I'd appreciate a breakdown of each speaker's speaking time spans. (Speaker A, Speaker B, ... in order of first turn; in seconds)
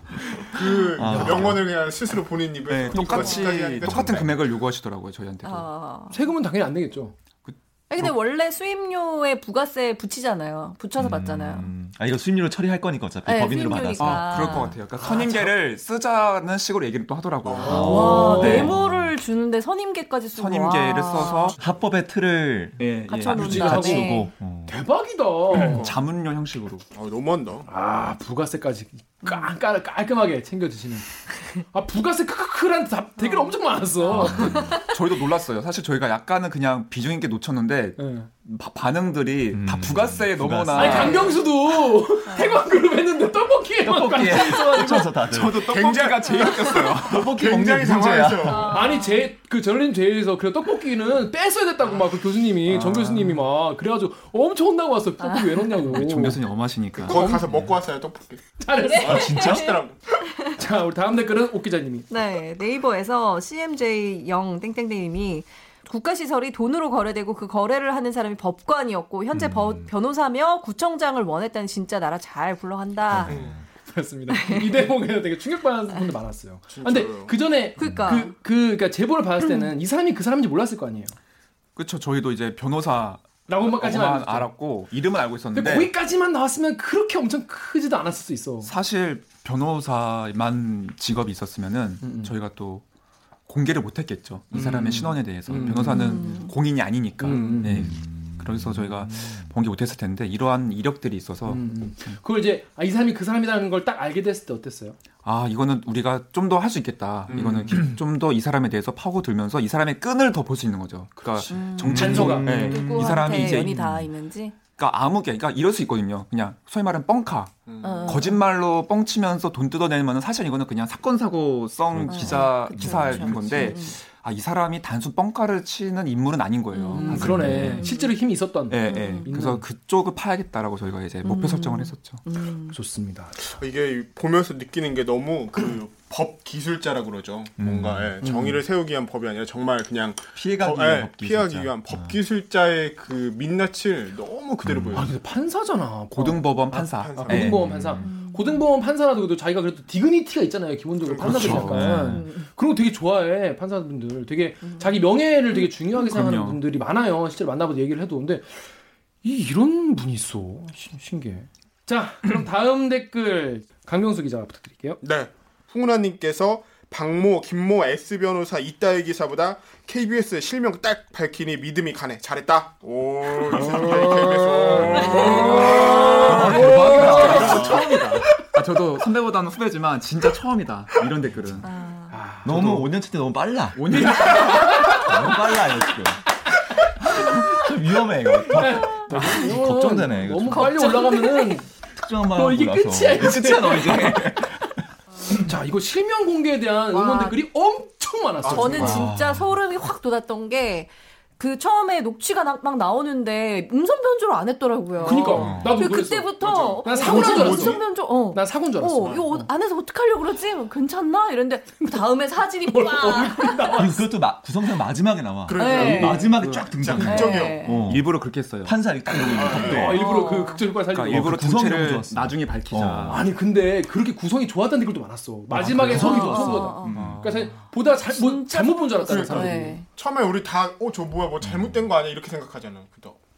Speaker A: 0.2-1.6, 6.1-7.2, 17.6-18.7, 23.3-25.9, 27.7-31.1, 31.7-34.6, 38.0-38.3, 40.7-45.2, 48.6-56.4, 57.0-57.5, 58.6-59.5, 60.4-62.1, 73.8-81.2, 83.5-84.5, 85.5-88.7, 92.0-92.3, 94.5-96.3, 97.2-97.9, 101.5-105.0, 111.8-112.7, 126.9-129.6, 132.7-133.4, 138.2-138.6, 144.9-158.7, 159.2-165.0, 173.5-178.0, 182.1-182.9, 183.9-185.7, 188.5-191.7, 192.3-194.6, 195.3-199.0, 205.0-209.5, 212.7-214.0, 219.4-221.4, 223.1-229.8
Speaker B: 0.4-4.4, 17.4-18.6, 25.6-26.0, 26.9-27.7, 45.6-48.8, 57.0-60.0, 73.3-73.6, 76.7-77.3, 107.3-107.8, 117.7-118.3, 133.4-145.1, 146.7-147.6, 151.1-151.7, 165.0-178.1, 198.4-199.1, 205.0-205.7, 206.4-207.8, 209.0-209.2, 215.5-217.7, 219.3-220.0, 229.1-233.2
Speaker C: 1.0-1.7, 3.8-4.3, 11.0-14.8, 17.7-19.1, 21.6-24.8, 34.1-34.8, 39.5-41.1, 43.9-45.6, 47.0-48.8, 59.0-59.8, 69.3-69.9, 73.1-73.7, 77.8-78.1, 97.6-99.5, 111.9-114.1, 121.9-123.7, 127.2-127.8, 137.6-138.2, 140.3-142.2, 144.6-145.1, 147.3-148.1, 151.2-152.3, 174.7-175.1, 176.2-177.8, 182.4-186.2, 187.1-190.9, 191.9-194.8, 198.8-199.6, 205.3-205.8, 213.8-220.0, 221.1-223.2, 225.5-227.4, 231.4-231.9
Speaker D: 2.7-5.7, 7.4-8.1, 14.0-18.7, 20.4-21.6, 22.8-24.1, 25.5-26.9, 34.3-41.4, 45.2-47.4, 52.7-53.4, 55.9-57.4, 81.8-85.9, 88.6-92.8, 93.5-102.2, 105.2-113.8, 114.7-127.9, 128.7-132.2, 146.1-147.6, 151.2-152.0, 156.0-156.6, 174.9-181.7, 182.5-182.8, 183.7-184.8, 217.7-218.8, 220.9-223.3, 226.9-227.5
Speaker E: 3.1-3.5, 5.4-6.2, 7.9-11.7, 13.2-14.8, 17.7-21.6, 23.1-24.2, 29.2-29.6, 33.2-34.9, 40.8-41.5, 42.3-42.6, 48.4-49.3, 55.2-55.7, 58.9-59.8, 62.1-73.4, 74.3-74.8, 77.8-78.3, 79.4-79.7, 95.7-96.5, 111.5-114.6, 117.8-118.4, 122.1-124.0, 126.7-128.1, 128.9-129.3, 131.2-132.8, 148.0-148.6, 152.0-152.5, 174.8-176.2, 181.6-182.2, 189.2-191.6, 196.9-197.4, 198.5-213.9, 215.6-216.3, 217.0-217.8, 219.8-220.7, 225.9-227.0, 228.0-229.9